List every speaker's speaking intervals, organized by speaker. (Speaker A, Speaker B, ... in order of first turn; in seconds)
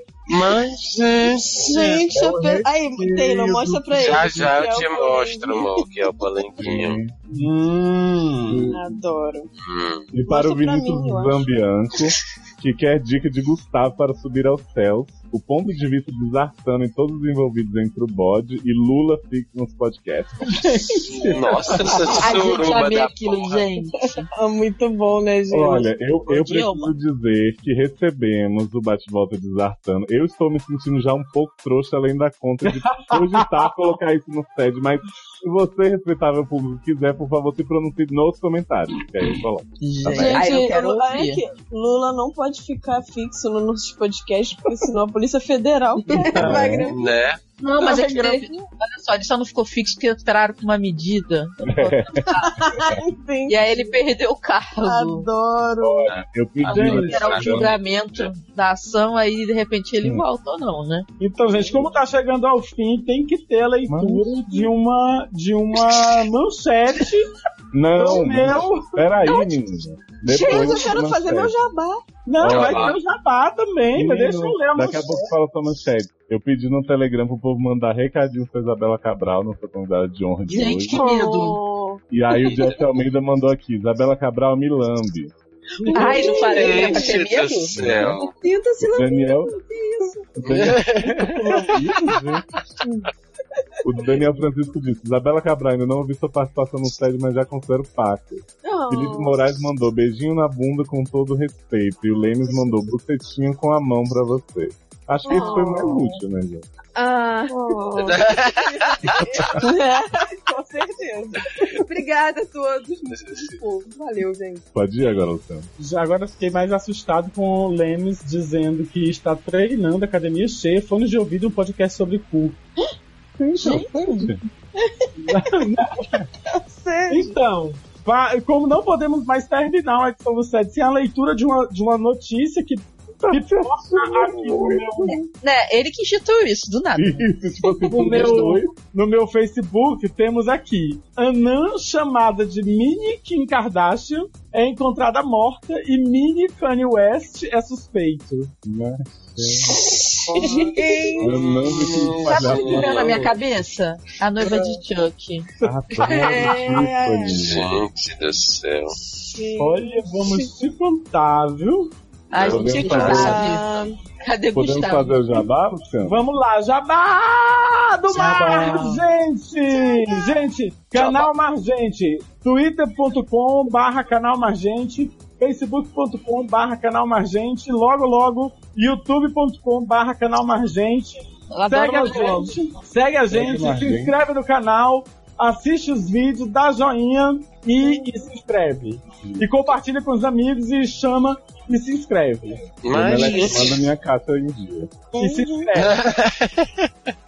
Speaker A: 0.3-1.7, 3.9-7.0, 9.6-10.1, 21.1-23.6, 46.9-47.4, 56.0-58.3, 72.4-73.0, 86.3-88.3, 90.4-91.3, 108.0-109.2, 113.1-113.6, 150.3-150.9, 151.5-153.2, 157.3-158.9, 162.3-163.1, 170.9-171.2, 192.8-193.8, 195.8-196.9
Speaker B: 1.6-5.8, 8.7-9.5, 10.2-11.5, 24.2-25.9, 40.1-47.2, 47.8-48.6, 52.3-54.0, 54.8-56.1, 70.3-72.0, 80.9-82.5, 85.8-87.0, 98.6-99.4, 105.2-106.1, 107.5-108.4, 109.4-111.8, 124.8-125.5, 126.5-127.3, 149.8-151.5, 154.4-154.7, 156.0-157.5, 159.2-160.5, 162.8-164.0, 168.1-168.9, 195.1-195.7
Speaker C: 2.1-4.1, 6.6-7.2, 8.4-8.9, 10.1-20.6, 25.5-40.6, 46.3-46.9, 51.7-53.0, 55.8-57.8, 63.9-64.4, 67.7-71.5, 72.4-72.9, 73.9-81.1, 82.1-85.3, 87.7-88.2, 88.8-89.5, 90.4-92.5, 93.8-106.7, 114.7-115.7, 123.6-124.4, 133.2-135.2, 136.9-138.7, 148.6-149.8, 151.2-153.3, 155.6-157.8, 162.3-163.5, 164.5-166.2, 183.3-184.1, 189.2-189.5, 192.9-194.9
Speaker D: 3.0-3.7, 7.3-8.8, 20.5-22.2, 32.6-33.5, 56.7-57.4, 61.2-67.3, 68.0-69.0, 72.2-75.3, 85.8-86.2, 90.9-92.1, 115.8-122.6, 125.3-126.2, 127.1-135.3, 137.9-148.5, 159.6-161.9, 166.0-192.7, 195.2-196.0
Speaker E: 22.1-24.2, 26.3-26.9, 39.8-41.4, 47.6-52.7, 53.5-55.2, 56.8-61.1, 80.5-81.6, 85.9-87.7, 123.5-124.3, 135.4-138.6, 152.2-155.5, 162.3-163.7, 164.2-165.4, 181.5-182.6
Speaker F: 46.4-46.8, 88.4-90.3, 105.3-105.6, 107.0-107.7, 108.6-109.5, 111.7-114.6